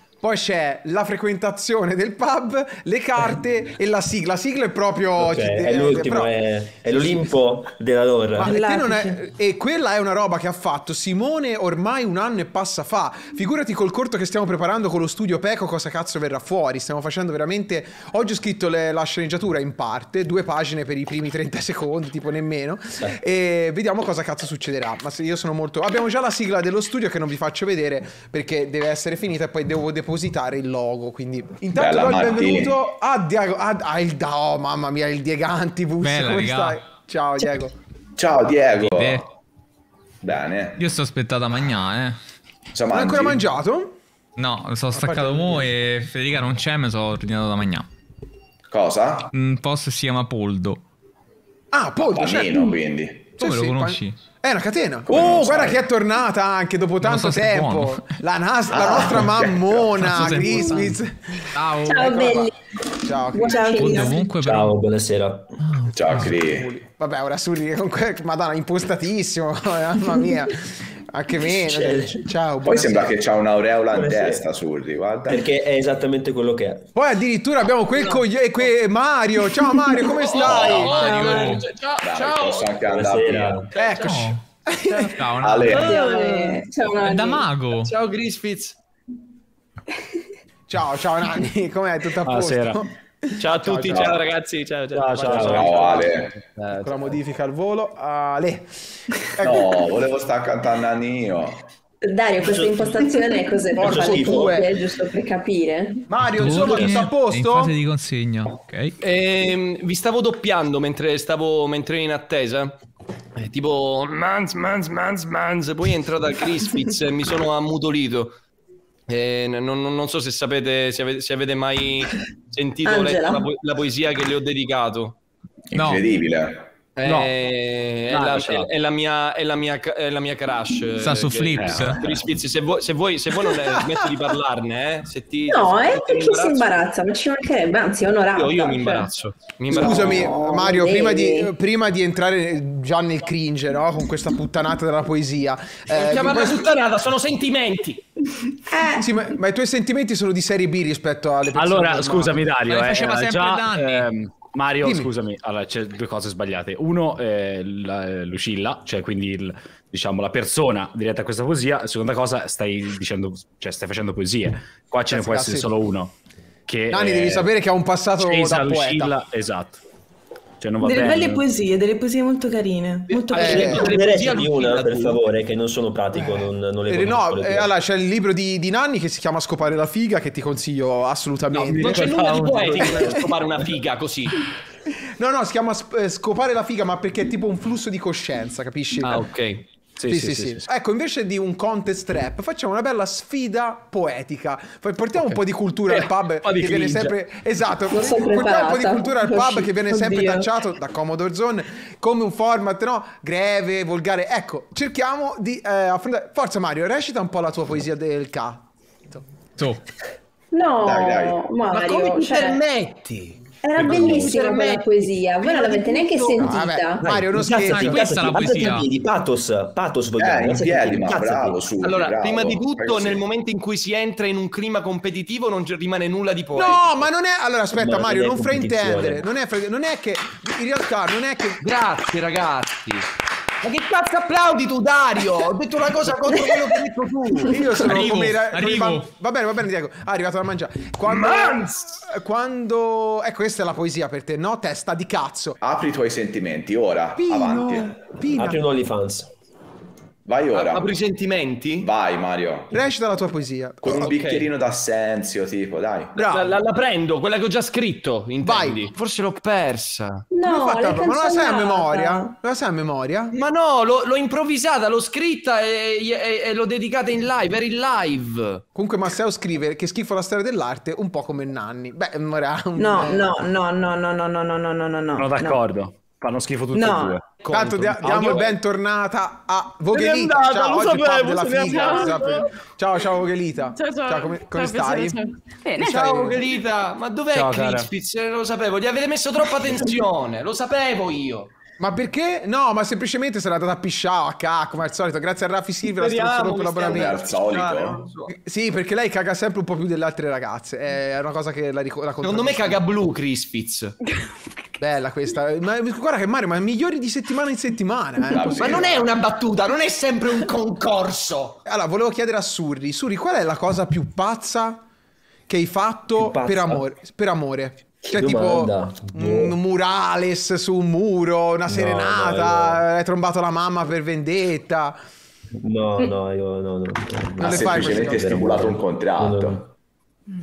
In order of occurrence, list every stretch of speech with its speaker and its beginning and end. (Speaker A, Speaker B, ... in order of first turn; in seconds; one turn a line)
Speaker A: 0.2-6.3
Speaker B: 5.2-8.5
Speaker A: 6.8-7.3
Speaker A: 8.4-37.7
Speaker C: 8.4-9.2
Speaker D: 31.7-32.8
Speaker E: 36.0-36.8
Speaker D: 38.2-39.2
Speaker E: 38.8-39.2
Speaker D: 40.2-40.8
Speaker E: 40.8-42.2
Speaker D: 42.7-43.4
Speaker A: 42.9-43.9
Speaker E: 44.4-47.9
Speaker A: 44.9-45.7
Speaker D: 48.7-49.3
Speaker E: 49.3-50.8
Speaker A: 51.7-52.8
Speaker D: 52.0-53.3
Speaker A: 53.4-62.5
Speaker E: 53.4-54.2
Speaker D: 55.1-55.8
Speaker E: 57.0-58.1
Speaker B: 58.7-59.7
Speaker E: 59.9-61.0
Speaker E: 61.5-62.3
Speaker F: 61.8-62.5
Speaker A: 63.0-63.7
Speaker F: 63.3-64.1
Speaker C: 63.4-64.2
Speaker E: 63.7-64.8
Speaker B: 64.0-65.5
Speaker E: 65.8-66.2
Speaker D: 65.9-66.7
Speaker A: 66.2-73.2
Speaker B: 71.4-72.3
Speaker D: 72.6-75.5
Speaker B: 73.9-74.4
Speaker B: 75.2-76.9
Speaker A: 77.0-81.1
Speaker G: 80.1-82.8
Speaker D: 80.4-81.0
Speaker E: 80.7-81.7
Speaker D: 82.0-83.7
Speaker B: 82.9-83.7
Speaker A: 83.8-85.2
Speaker E: 83.9-86.0
Speaker D: 85.4-86.0
Speaker G: 85.7-86.1
Speaker F: 85.7-87.6
Speaker C: 86.0-86.4
Speaker E: 87.0-87.9
Speaker G: 87.8-88.8
Speaker A: 90.7-94.2
Speaker H: 92.2-92.8
Speaker G: 93.4-96.2
Speaker H: 94.9-96.9
Speaker B: 95.3-95.7
Speaker D: 95.5-96.3
Speaker A: 96.7-99.7
Speaker D: 99.4-101.7
Speaker F: 102.0-106.1
Speaker B: 102.4-103.1
Speaker B: 103.8-104.7
Speaker A: 103.8-104.7
Speaker A: 106.1-107.7
Speaker E: 106.3-109.0
Speaker G: 109.0-112.8
Speaker G: 113.4-118.3
Speaker G: 119.1-125.2
Speaker F: 122.8-123.5
Speaker D: 125.7-126.7
Speaker E: 125.8-126.1
Speaker G: 127.0-136.8
Speaker H: 127.0-127.3
Speaker H: 128.1-128.7
Speaker E: 131.0-132.0
Speaker H: 131.6-132.2
Speaker F: 135.5-139.1
Speaker G: 138.3-140.3
Speaker F: 139.7-141.5
Speaker A: 139.7-146.7
Speaker G: 145.9-148.0
Speaker A: 148.7-152.5
Speaker H: 151.6-166.1
Speaker E: 152.7-154.1
Speaker A: 154.8-155.1
Speaker A: 165.1-165.7
Speaker H: 166.7-167.5
Speaker A: 166.9-169.1
Speaker H: 168.2-169.8
Speaker H: 170.6-171.4
Speaker C: 170.8-173.9
Speaker G: 173.1-175.2
Speaker A: 173.3-173.9
Speaker B: 173.4-177.7
Speaker A: 176.1-183.2
Speaker H: 181.6-182.9
Speaker G: 181.6-184.5
Speaker A: 185.2-189.2
Speaker G: 189.0-189.7
Speaker H: 190.0-190.6
Speaker A: 190.1-209.2
Speaker G: 195.9-197.1
Speaker F: 197.9-200.2
Speaker F: 210.5-212.6
Speaker D: 210.8-211.5
Speaker G: 211.7-214.7
Speaker F: 213.6-217.1
Speaker B: 213.8-214.3
Speaker G: 215.4-216.4
Speaker A: 216.4-218.0
Speaker B: 217.0-221.6
Speaker E: 217.7-218.9
Speaker D: 220.2-223.2
Speaker G: 221.8-227.1
Speaker A: 226.6-231.6
Speaker B: 227.8-229.2
Speaker G: 231.6-233.1
Speaker G: 233.6-237.6
Speaker A: 237.4-245.6
Speaker E: 237.7-239.1
Speaker G: 241.1-241.9
Speaker D: 245.6-248.0
Speaker A: 247.2-248.6
Speaker B: 248.3-249.3
Speaker D: 250.2-250.9
Speaker G: 250.5-251.9
Speaker D: 251.8-252.7
Speaker A: 252.7-254.1
Speaker D: 253.8-256.2
Speaker G: 253.9-254.5
Speaker A: 256.1-256.5
Speaker G: 256.3-260.2
Speaker A: 258.4-258.9
Speaker F: 260.3-262.2
Speaker A: 260.4-263.3
Speaker G: 263.3-268.6
Speaker A: 268.8-273.4
Speaker C: 272.8-275.6
Speaker H: 275.1-278.5
Speaker C: 276.7-277.2
Speaker A: 277.5-285.2
Speaker G: 280.0-282.3
Speaker I: 281.6-282.5
Speaker I: 283.7-286.2
Speaker A: 285.8-286.4
Speaker G: 285.9-291.5
Speaker H: 287.3-287.9
Speaker A: 291.8-297.2
Speaker G: 296.0-298.3
Speaker D: 296.8-298.0
Speaker A: 298.3-302.8
Speaker G: 302.2-304.0
Speaker A: 304.8-309.1
Speaker D: 308.3-309.1
Speaker G: 308.6-311.6
Speaker A: 311.7-314.8
Speaker A: 315.5-325.0
Speaker B: 316.2-316.8
Speaker B: 318.1-319.6
Speaker B: 321.7-322.8
Speaker B: 325.6-329.7
Speaker A: 327.4-328.3
Speaker D: 327.4-329.6